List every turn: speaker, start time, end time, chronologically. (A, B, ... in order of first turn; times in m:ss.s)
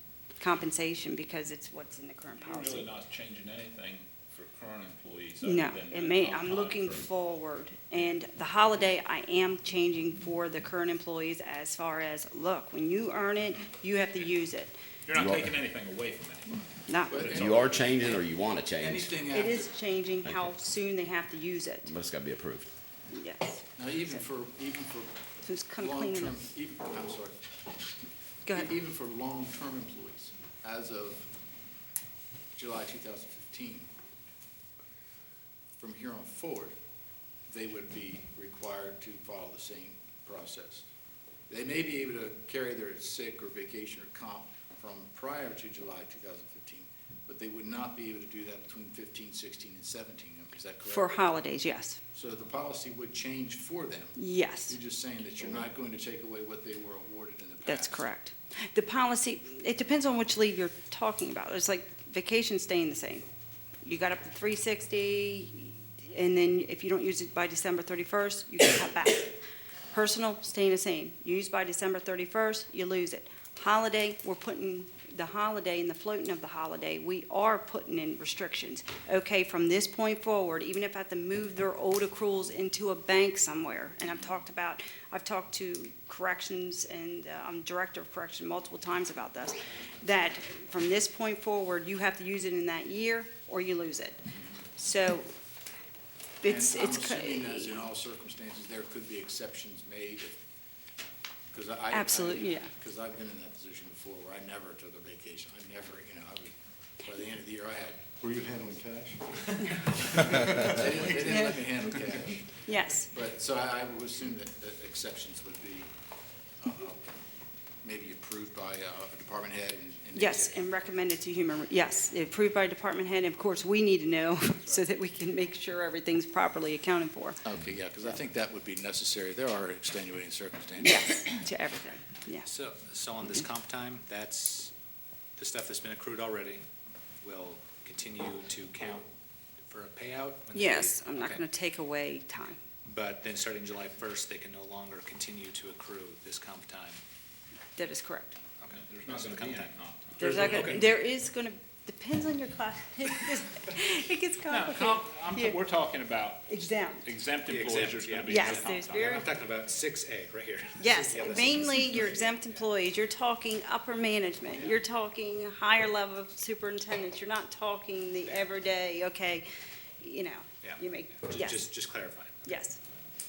0:00.4-0:02.9 A
0:02.4-0:07.1 B
0:05.4-0:14.7 A
0:15.1-0:17.8 B
0:15.1-0:15.5 C
0:16.9-0:17.2 A
0:17.1-0:18.2 D
0:17.3-0:19.2 C
0:18.8-0:19.7 D
0:19.3-0:21.9 A
0:20.2-0:20.5 C
0:21.9-0:22.7 C
0:23.1-0:23.6 A
0:23.8-0:25.2 D
0:25.4-0:26.4 A
0:25.8-0:27.4 D
0:28.5-0:31.3 D
0:32.6-0:33.9 D
0:35.8-0:36.7 D
0:37.5-0:40.9 D
0:41.5-0:51.2 D
0:50.9-0:52.0 A
0:52.1-0:54.2 D
0:54.2-0:54.8 A
0:54.7-0:58.1 D
0:57.6-1:03.2 A
1:03.8-1:09.4 A
1:09.9-1:34.2 A
1:34.8-1:35.3 A
1:36.4-1:37.8 A
1:36.4-1:40.4 D
1:41.5-1:49.3 D
1:41.9-1:42.7 A
1:50.1-1:52.6 D
1:51.2-1:51.6 A
1:52.7-1:53.1 A
1:53.1-1:55.9 D
1:56.6-1:57.1 D
1:57.8-2:00.6 D
2:00.2-2:07.4 A
2:07.4-2:11.2 D
2:10.8-2:12.5 A
2:12.5-2:14.7 E
2:15.4-2:16.6 E
2:17.2-2:19.1 E
2:19.7-2:21.4 E
2:20.5-2:22.6 A
2:22.9-2:27.0 E
2:27.8-2:28.4 A
2:28.6-2:30.8 E
2:28.7-2:30.8 B
2:30.2-2:35.6 A
2:34.5-2:39.3 B
2:36.5-2:37.1 A
2:37.5-2:42.4 E
2:38.3-2:39.3 A
2:40.8-2:49.4 A
2:44.5-2:44.8 E
2:50.0-2:51.7 A
2:50.6-2:52.4 E
2:52.4-2:52.8 A